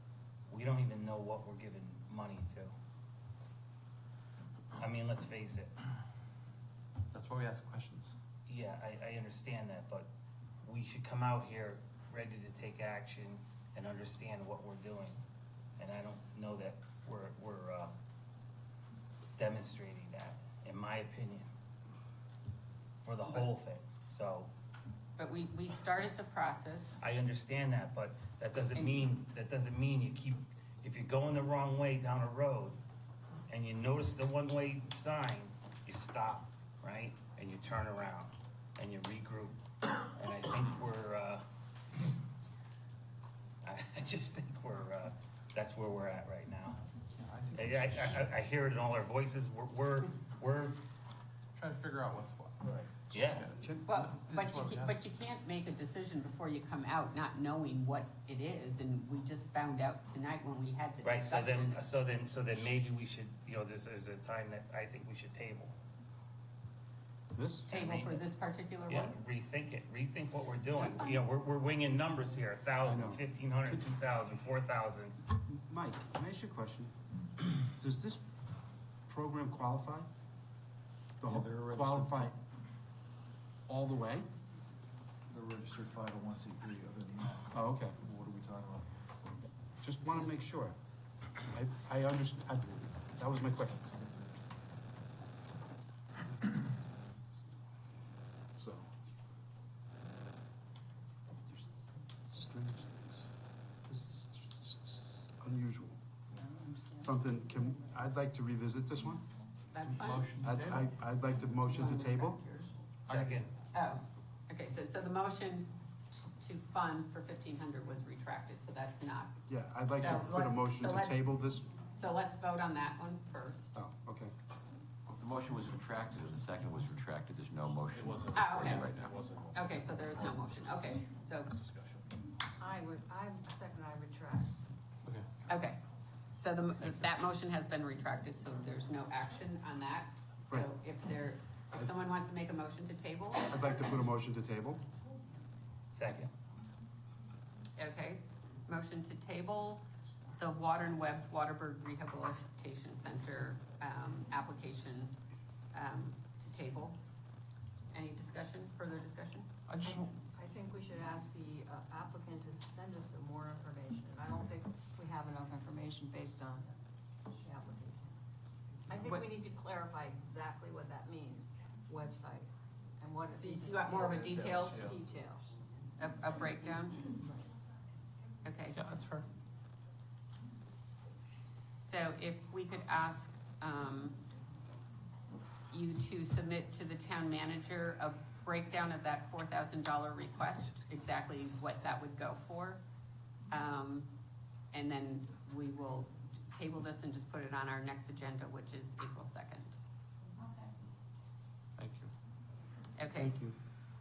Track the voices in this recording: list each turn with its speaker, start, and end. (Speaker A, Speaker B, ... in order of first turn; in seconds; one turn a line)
Speaker A: 0.5-2.7
Speaker A: 4.8-5.7
Speaker B: 7.1-8.1
Speaker A: 8.5-10.1
Speaker A: 10.6-15.2
Speaker A: 15.8-17.9
Speaker A: 19.4-21.5
Speaker A: 23.0-24.5
Speaker C: 25.2-27.0
Speaker A: 27.0-32.8
Speaker A: 33.5-41.4
Speaker A: 43.6-46.8
Speaker B: 47.2-48.2
Speaker A: 47.5-50.8
Speaker B: 51.5-55.0
Speaker A: 53.1-53.5
Speaker D: 53.2-53.8
Speaker C: 53.9-61.9
Speaker A: 61.0-65.7
Speaker D: 67.3-67.7
Speaker C: 67.7-69.2
Speaker A: 67.7-68.2
Speaker A: 68.9-75.2
Speaker C: 70.7-71.2
Speaker D: 72.8-73.8
Speaker D: 75.5-76.9
Speaker D: 77.5-78.2
Speaker D: 79.1-80.1
Speaker D: 81.2-82.3
Speaker E: 81.3-82.3
Speaker D: 83.7-84.3
Speaker E: 85.3-89.1
Speaker D: 87.5-88.0
Speaker D: 89.8-90.7
Speaker D: 91.5-93.8
Speaker E: 93.8-94.4
Speaker D: 98.5-98.9
Speaker D: 101.5-103.3
Speaker D: 103.8-106.0
Speaker F: 106.5-107.1
Speaker D: 107.0-109.2
Speaker C: 109.7-110.4
Speaker B: 109.8-110.8
Speaker D: 110.4-112.4
Speaker C: 111.6-112.7
Speaker A: 113.1-113.5
Speaker C: 113.7-119.3
Speaker D: 119.5-121.7
Speaker C: 120.0-123.8
Speaker D: 123.7-124.3
Speaker G: 125.1-129.1
Speaker E: 127.9-130.3
Speaker C: 128.2-131.5
Speaker E: 131.6-132.0
Speaker F: 132.6-134.6
Speaker B: 135.0-135.3
Speaker C: 135.4-135.8
Speaker C: 136.3-143.7
Speaker D: 143.5-144.8
Speaker A: 145.9-146.3
Speaker C: 147.8-149.8
Speaker C: 150.3-155.2
Speaker C: 155.7-157.0
Speaker C: 157.9-159.5
Speaker B: 159.7-160.1
Speaker F: 159.8-166.7
Speaker F: 167.3-168.2
Speaker F: 168.9-175.5
Speaker C: 168.9-169.4
Speaker C: 173.3-174.9
Speaker B: 174.1-174.9
Speaker C: 176.0-177.1
Speaker C: 178.4-178.8
Speaker B: 178.7-179.3
Speaker C: 181.6-184.2
Speaker C: 185.7-192.8
Speaker C: 193.5-194.1
Speaker C: 194.7-199.8
Speaker B: 201.8-202.1
Speaker C: 202.9-203.4